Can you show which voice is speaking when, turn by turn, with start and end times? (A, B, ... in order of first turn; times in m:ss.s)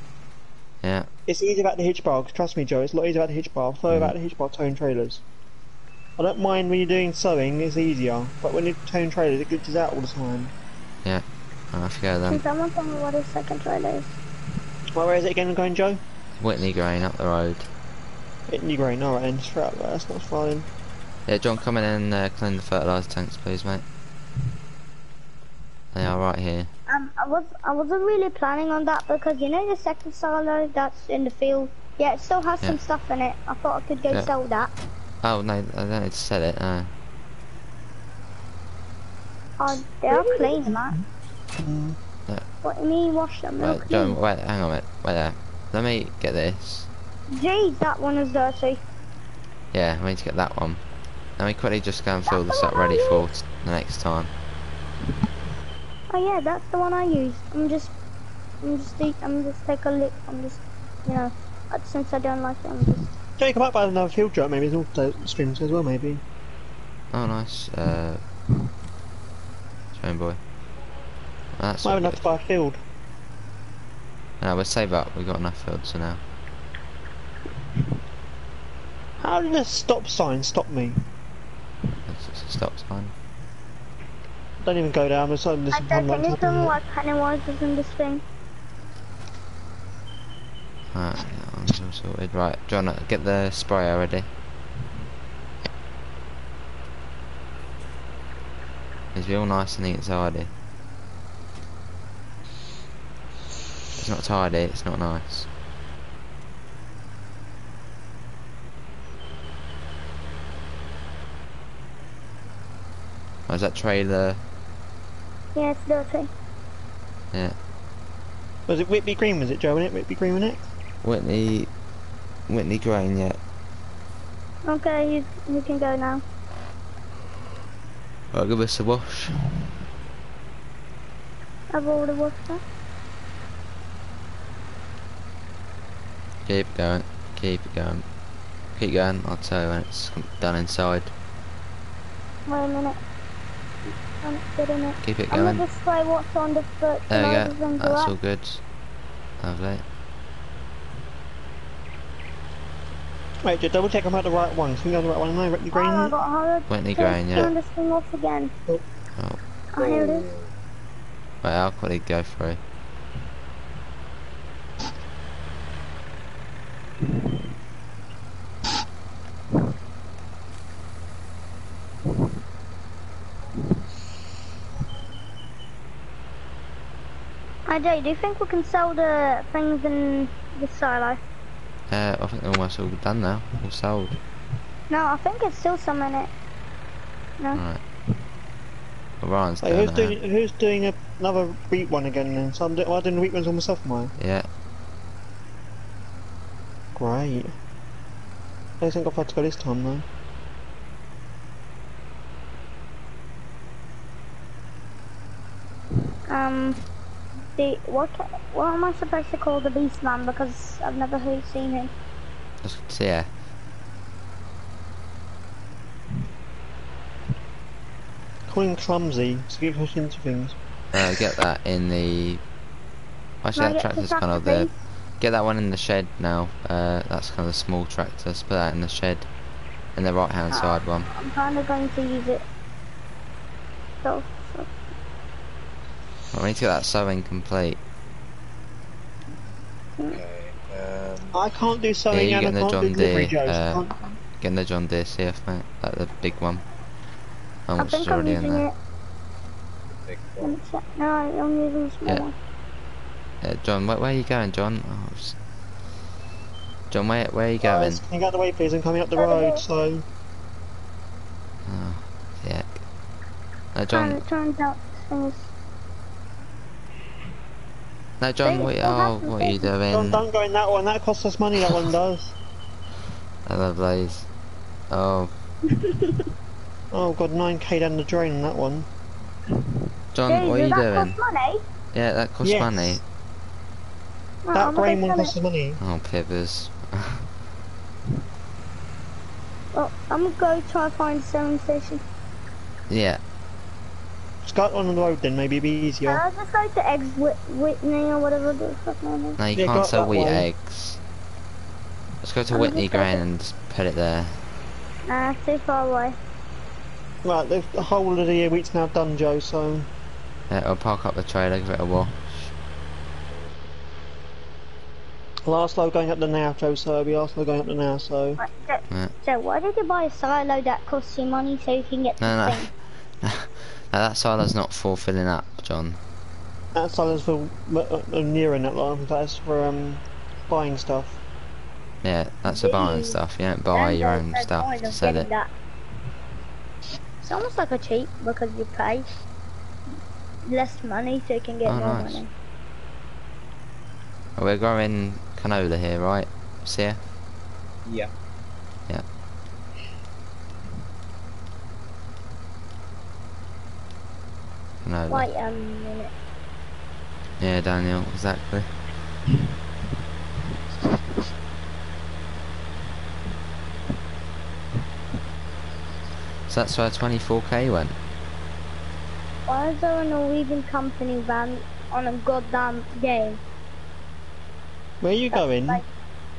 0:00.8-0:01.1 A
0:01.3-0:05.2 B
0:06.2-0:10.5 B
0:11.0-0:12.4 A
0:12.3-0:14.2 C
0:14.9-0:16.0 B
0:16.4-0:17.7 A
0:18.5-0:20.7 B
0:21.3-0:23.8 A
0:25.9-0:26.7 A
0:26.9-0:34.7 C
0:35.2-0:36.9 A
0:39.6-0:41.0 C
0:40.1-0:41.0 B
0:41.6-0:42.0 B
0:42.6-0:44.2 C
0:43.6-0:46.9 A
0:47.3-0:48.8 C
0:49.7-0:50.8 A
0:51.4-0:54.3 A
0:52.3-0:53.4 C
0:56.1-0:57.9 C
0:58.6-1:03.1 C
1:03.4-1:06.2 B
1:07.1-1:08.2 A
1:09.9-1:10.4 A
1:11.6-1:12.2 A
1:11.8-1:12.8 B
1:14.4-1:16.2 A
1:19.2-1:21.0 B
1:22.1-1:23.1 A
1:24.6-1:26.8 B
1:25.7-1:28.2 C
1:30.9-1:34.3 A
1:39.1-1:40.5 A
1:44.0-1:45.5 A
1:53.5-1:54.4 A
1:55.6-1:56.3 C
1:58.7-2:00.6 B
2:01.0-2:01.7 A
2:02.5-2:03.4 A
2:04.6-2:06.2 C
2:08.3-2:09.5 A
2:11.7-2:12.6 C
2:16.4-2:18.1 A
2:18.8-2:21.1 A
2:22.4-2:23.0 C
2:24.2-2:28.1 C
2:25.0-2:25.6 A
2:27.1-2:28.6 A
2:29.4-2:29.8 A
2:33.4-2:36.2 B
2:35.7-2:38.5 C
2:36.7-2:37.5 A
2:39.7-2:40.3 C
2:39.8-2:40.5 D
2:41.4-2:42.6 A
2:57.7-3:01.2 C
3:01.9-3:04.2 A
3:04.9-3:06.3 C
3:07.5-3:07.8 A
3:09.2-3:10.2 A
3:09.6-3:14.1 B
3:14.2-3:14.5 A
3:17.0-3:17.6 B
3:18.8-3:20.1 B
3:26.3-3:26.9 C
3:27.6-3:31.9 C
3:32.6-3:33.3 A
3:38.5-3:41.0 B
3:40.9-3:42.4 A
3:43.4-3:49.3 A
3:43.6-3:44.7 C
3:50.0-3:51.1 A
3:50.5-3:52.4 C
3:54.0-3:54.7 C
3:56.3-3:57.8 A
4:00.1-4:01.4 D
4:01.3-4:04.2 B
4:02.1-4:03.8 A
4:04.4-4:06.6 A
4:07.7-4:08.7 A
4:07.8-4:08.7 C
4:10.1-4:10.6 D
4:10.4-4:12.4 C
4:13.4-4:15.4 A
4:16.9-4:18.0 A
4:17.6-4:20.0 B
4:19.2-4:19.6 C
4:21.7-4:22.8 A
4:23.7-4:24.2 A
4:23.9-4:25.5 C
4:28.2-4:30.2 A
4:28.4-4:29.7 C
4:29.9-4:32.4 B
4:33.4-4:34.3 A
4:34.9-4:35.3 A
4:35.7-4:36.2 C
4:36.9-4:38.9 B
4:40.1-4:41.2 A
4:40.3-4:41.6 C
4:41.9-4:43.0 A
4:42.4-4:43.0 B
4:44.4-4:45.3 C
4:44.5-4:45.8 B
4:45.8-4:47.2 A
4:49.7-4:52.0 C
4:52.9-4:53.2 A
4:54.4-4:56.2 B
4:56.1-4:59.4 C
4:59.4-5:01.0 A
4:59.5-5:00.4 B
5:02.2-5:04.4 A
5:02.5-5:03.2 C
5:05.1-5:06.2 C
5:07.2-5:09.9 B
5:10.5-5:12.5 A
5:15.4-5:18.4 B
5:18.4-5:22.7 C
5:18.9-5:19.1 A
5:22.2-5:26.0 A
5:26.7-5:31.2 B
5:32.0-5:35.3 A
5:32.5-5:33.2 C
5:33.7-5:35.5 C
5:37.2-5:39.2 C
5:40.4-5:42.3 C
5:41.6-5:42.2 A
5:44.4-5:47.0 A
5:47.8-5:48.1 D
5:54.8-5:55.3 A
5:55.1-5:56.1 C
5:57.4-5:58.7 A
6:06.5-6:08.0 A
6:09.5-6:13.4 C
6:15.0-6:15.8 B
6:15.3-6:15.8 C